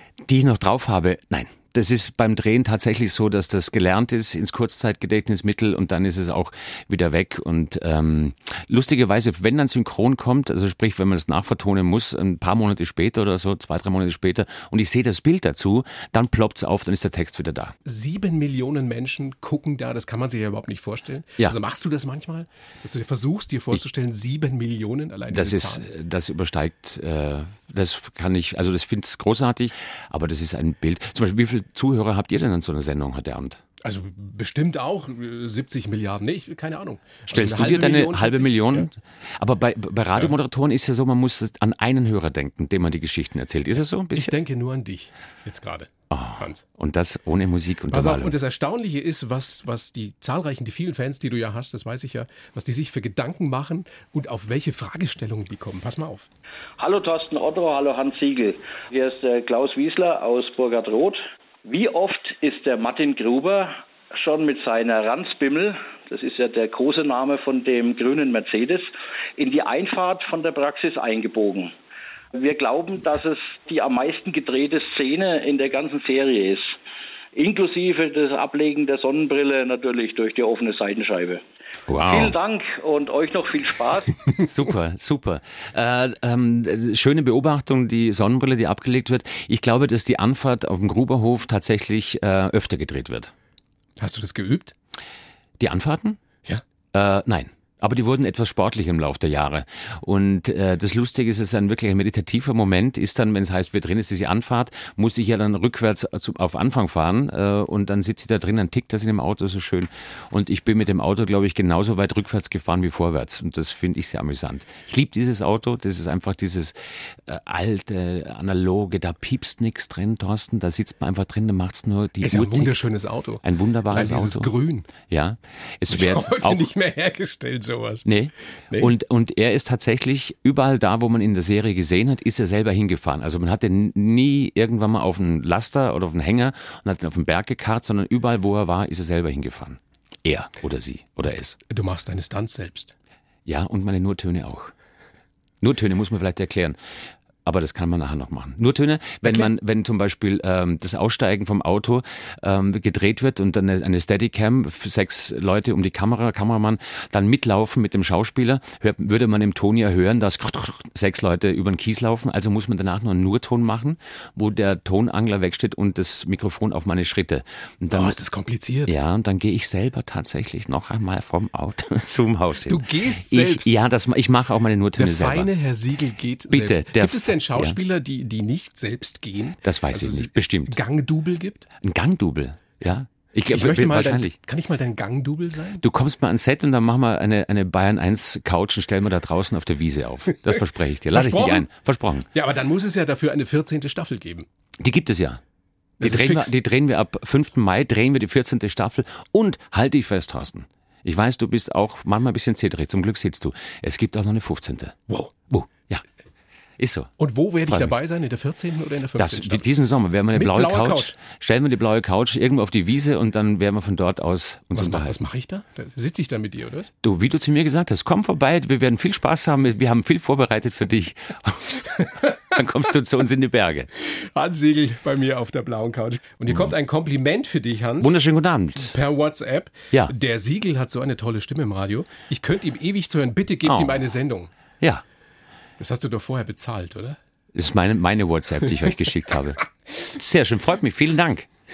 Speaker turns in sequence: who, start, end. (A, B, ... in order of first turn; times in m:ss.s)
0:00.2-0:17.8 A
0:17.8-0:25.9 B
0:25.3-0:33.6 A
0:33.8-0:38.9 B
0:37.3-0:44.3 A
0:44.2-0:46.6 B
0:46.1-0:48.4 A
0:47.9-0:56.3 B
0:56.8-1:11.7 C
1:12.4-1:16.8 C
1:17.4-1:21.4 C
1:21.9-1:22.4 A
1:22.1-1:24.2 C
1:24.4-1:33.3 A
1:34.0-1:34.8 B
1:35.6-1:36.2 A
1:36.9-2:02.8 A
2:02.2-2:04.9 B
2:03.4-2:04.5 A
2:05.0-2:06.7 A
2:05.9-2:08.1 B
2:08.0-2:21.6 A
2:21.7-2:22.9 B
2:23.5-2:24.7 A
2:25.6-2:26.8 A
2:27.4-2:48.2 A
2:29.2-2:29.5 B
2:47.9-2:49.0 B
2:48.9-2:55.5 A
2:52.7-2:53.7 B
2:55.0-3:01.7 B
2:56.5-2:57.8 A
2:59.6-3:00.8 A
3:01.8-3:04.4 A
3:03.5-3:05.8 B
3:05.8-3:12.3 A
3:11.1-3:11.7 B
3:12.3-3:14.5 B
3:14.8-3:15.4 A
3:16.0-3:16.5 B
3:16.0-3:26.0 A
3:25.1-3:25.4 B
3:26.8-3:27.1 A
3:27.2-3:29.8 B
3:27.7-3:28.0 A
3:29.2-3:35.2 A
3:30.3-3:31.2 B
3:34.7-3:36.9 B
3:37.0-3:43.9 A
3:44.0-3:48.2 B
3:48.0-3:49.0 A
3:48.8-3:54.5 B
3:53.7-3:54.0 A
3:55.8-3:57.2 B
3:57.6-4:01.5 A